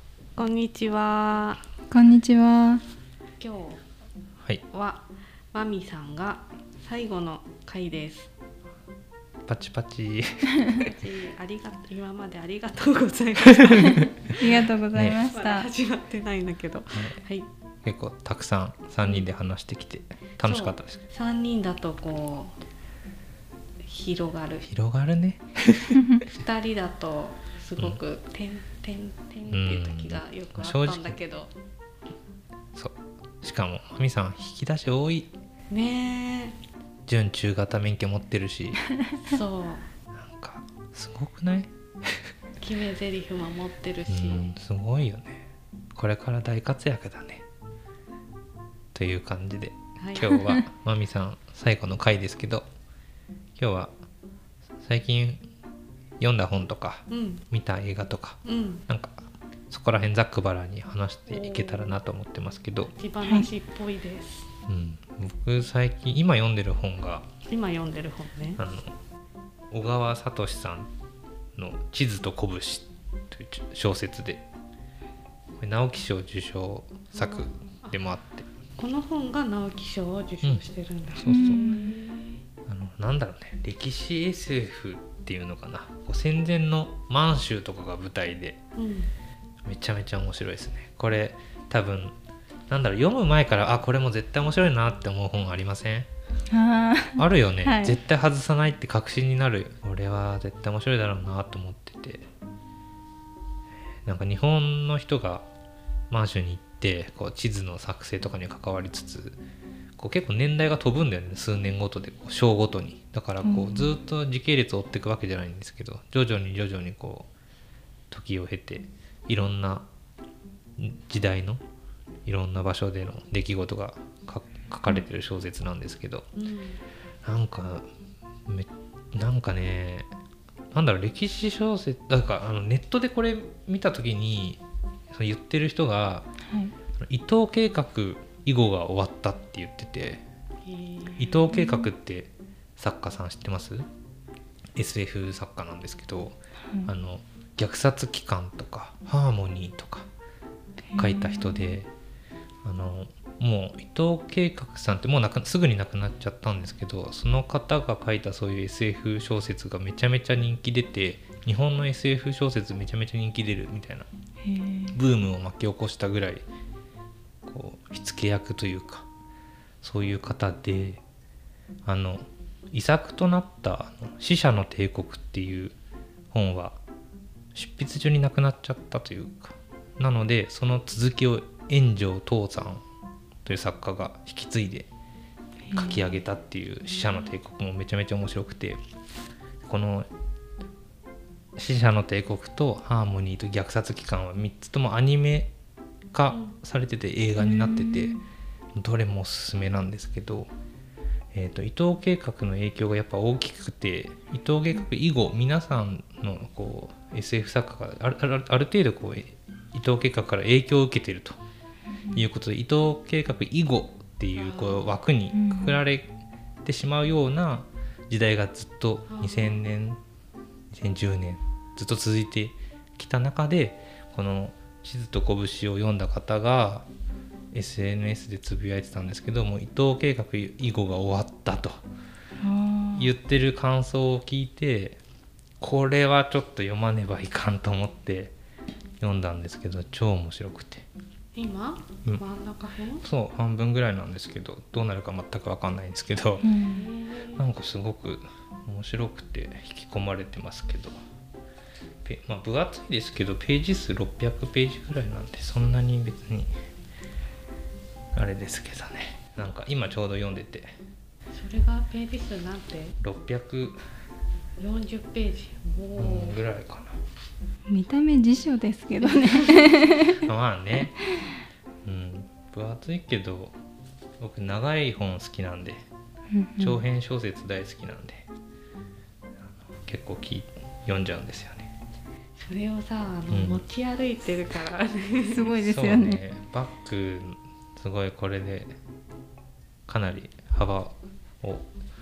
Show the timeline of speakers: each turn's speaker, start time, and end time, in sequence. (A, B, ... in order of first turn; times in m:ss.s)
0:00.4-0:01.6 A
0:01.9-0:02.8 B
0:03.4-0:03.8 A
0:04.7-0:08.3 A
0:09.4-0:10.8 C
0:10.7-0:14.4 A
0:13.4-0:14.3 C
0:13.8-0:15.7 B
0:14.9-0:15.2 C
0:15.3-0:17.5 A
0:16.9-0:17.2 C
0:17.8-0:21.0 C
0:20.4-0:22.5 A
0:23.8-0:24.7 A
0:24.6-0:26.0 C
0:25.9-0:26.2 B
0:26.3-0:31.5 A
0:29.5-0:31.2 C
0:32.7-0:35.3 C
0:35.7-0:36.6 A
0:37.0-0:38.8 C
0:39.2-0:39.9 A
0:40.1-0:42.2 C
0:42.6-0:44.5 A
0:44.1-0:47.4 C
0:48.9-0:52.6 C
0:50.0-0:50.5 A
0:53.6-0:53.9 C
0:54.8-0:55.4 C
0:56.2-0:59.2 C
0:57.1-0:57.4 A
0:58.4-0:58.8 A
0:59.7-1:02.9 C
1:01.3-1:01.9 A
1:02.9-1:04.5 A
1:04.7-1:07.3 C
1:07.5-1:08.6 A
1:08.6-1:08.9 C
1:09.7-1:10.9 C
1:11.5-1:14.4 C
1:15.6-1:18.5 C
1:17.1-1:17.9 A
1:18.8-1:22.3 A
1:21.1-1:21.7 C
1:21.2-1:21.9 B
1:22.7-1:28.6 C
1:28.8-1:29.1 A
1:29.6-1:32.2 C
1:32.7-1:36.1 C
1:36.5-1:38.0 B
1:37.2-1:42.2 C
1:44.0-1:45.4 C
1:46.1-1:49.4 C
1:50.0-1:57.3 C
1:53.4-1:53.9 B
1:58.1-1:59.9 C
2:00.8-2:01.6 C
2:02.2-2:06.3 C
2:06.3-2:06.8 A
2:07.2-2:07.9 C
2:08.4-2:10.1 C
2:10.7-2:16.3 C
2:16.4-2:16.7 B
2:17.0-2:20.2 C
2:20.6-2:21.4 A
2:21.2-2:23.9 C
2:21.5-2:21.9 B
2:24.7-2:30.1 C
2:30.8-2:31.7 B
2:31.0-2:31.9 C
2:32.6-2:44.1 C
2:44.4-2:45.0 B
2:44.9-2:46.4 C
2:47.4-2:49.1 C
2:49.8-2:51.0 C
2:51.8-2:55.8 C
2:56.3-2:56.8 C
2:57.5-3:02.8 C
3:03.4-3:04.9 C
3:05.7-3:06.0 B
3:05.7-3:08.8 C
3:06.9-3:07.3 A
3:09.6-3:10.1 C
3:11.6-3:15.5 C
3:16.1-3:18.2 C
3:16.3-3:16.6 A
3:17.4-3:18.2 B
3:18.8-3:20.5 C
3:21.3-3:31.4 C
3:32.1-3:40.0 C
3:34.3-3:35.0 A
3:35.3-3:35.8 B
3:39.1-3:39.6 A
3:40.7-3:46.9 C
3:47.5-3:51.8 C
3:52.4-3:53.1 B
3:53.0-3:55.0 C
3:55.6-3:58.3 C
3:59.0-4:00.9 C
4:01.3-4:03.0 A
4:03.0-4:06.5 C
4:06.4-4:06.9 B
4:06.5-4:07.4 A
4:07.3-4:10.9 C
4:12.0-4:16.5 C
4:18.1-4:20.7 C
4:21.3-4:23.0 A
4:23.0-4:23.8 C
4:24.6-4:26.4 A
4:26.0-4:27.0 C
4:27.7-4:30.3 B
4:29.0-4:29.7 A
4:30.1-4:30.9 C
4:30.9-4:31.4 B
4:31.8-4:33.6 C
4:34.2-4:35.8 C
4:36.3-4:36.8 B
4:36.6-4:38.2 C
4:39.5-4:41.7 C
4:42.4-4:45.5 A
4:43.3-4:43.6 C
4:45.2-4:46.2 B
4:45.6-4:48.7 C
4:49.9-4:51.7 C